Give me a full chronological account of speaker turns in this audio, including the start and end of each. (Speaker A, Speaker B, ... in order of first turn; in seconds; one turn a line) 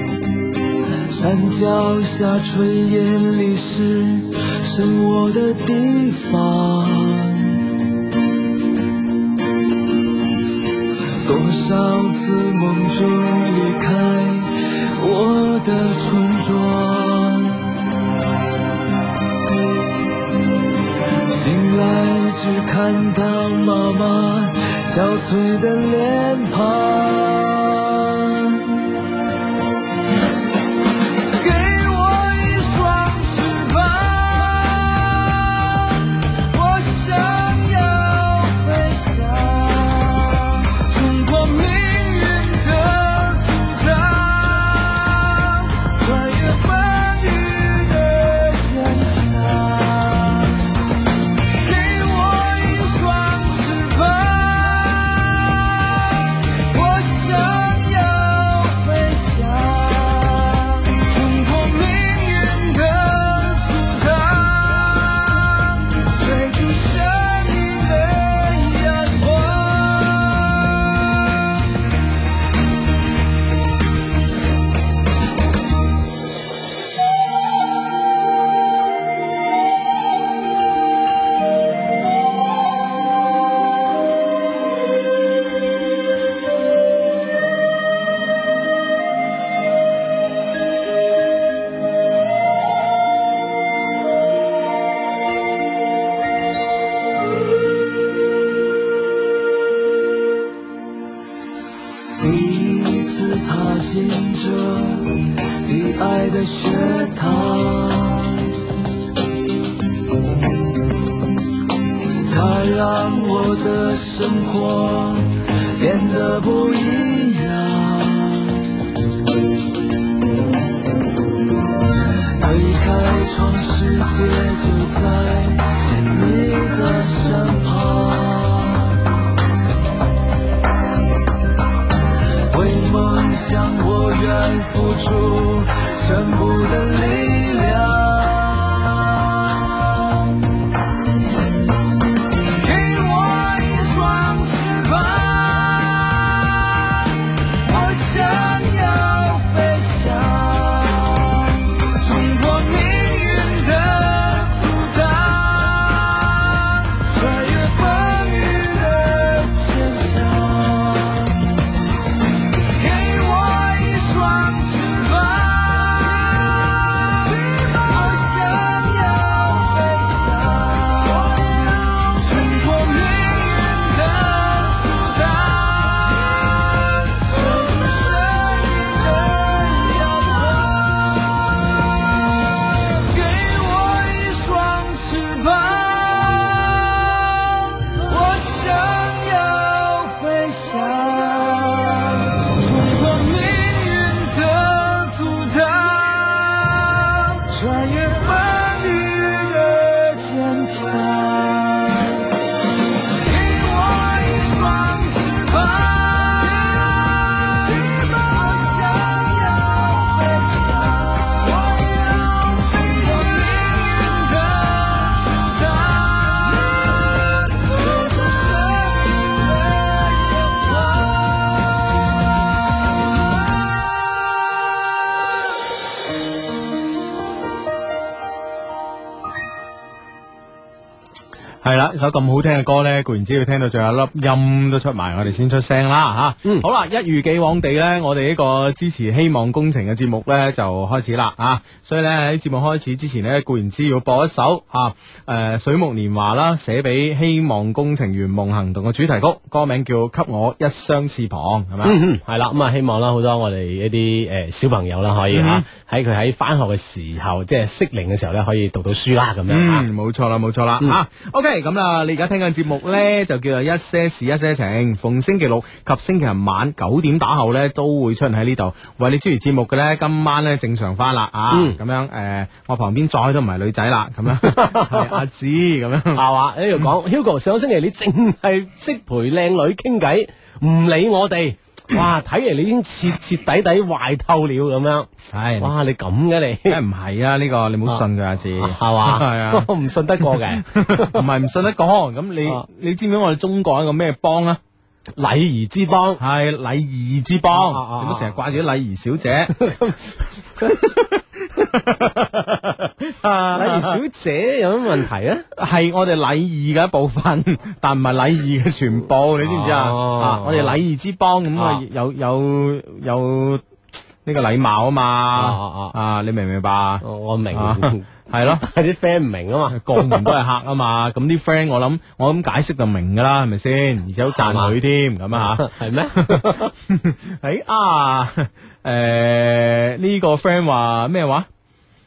Speaker A: 1.1-7.7
Speaker A: 11.1-17.8
Speaker A: 21.2-28.8
Speaker A: 31.3-50.7
Speaker A: 51.6-71.5
Speaker A: 102.2-108.5
Speaker A: 112.2-118.7
Speaker A: 122.4-129.0
Speaker A: 132.5-140.3
Speaker A: 142.5-161.5
Speaker A: 162.7-202.2
Speaker A: 203.1-222.0
Speaker B: 231.6-252.0
Speaker C: 251.8-259.9
Speaker B: 255.3-255.7
Speaker B: 259.5-276.2
Speaker C: 271.5-271.8
Speaker C: 274.4-275.2
Speaker C: 276.1-285.1
Speaker B: 285.3-285.7
Speaker C: 285.6-286.8
Speaker B: 286.7-289.7
Speaker C: 288.6-291.2
Speaker B: 290.2-294.6
Speaker C: 295.2-296.2
Speaker B: 296.2-299.5
Speaker C: 297.5-298.4
Speaker C: 299.5-300.9
Speaker B: 300.6-304.0
Speaker C: 303.5-305.4
Speaker B: 305.6-313.6
Speaker C: 309.4-310.8
Speaker C: 311.6-311.8
Speaker B: 314.2-318.6
Speaker C: 315.4-316.0
Speaker C: 317.0-320.3
Speaker B: 319.7-331.5
Speaker C: 324.3-324.8
Speaker C: 325.3-326.7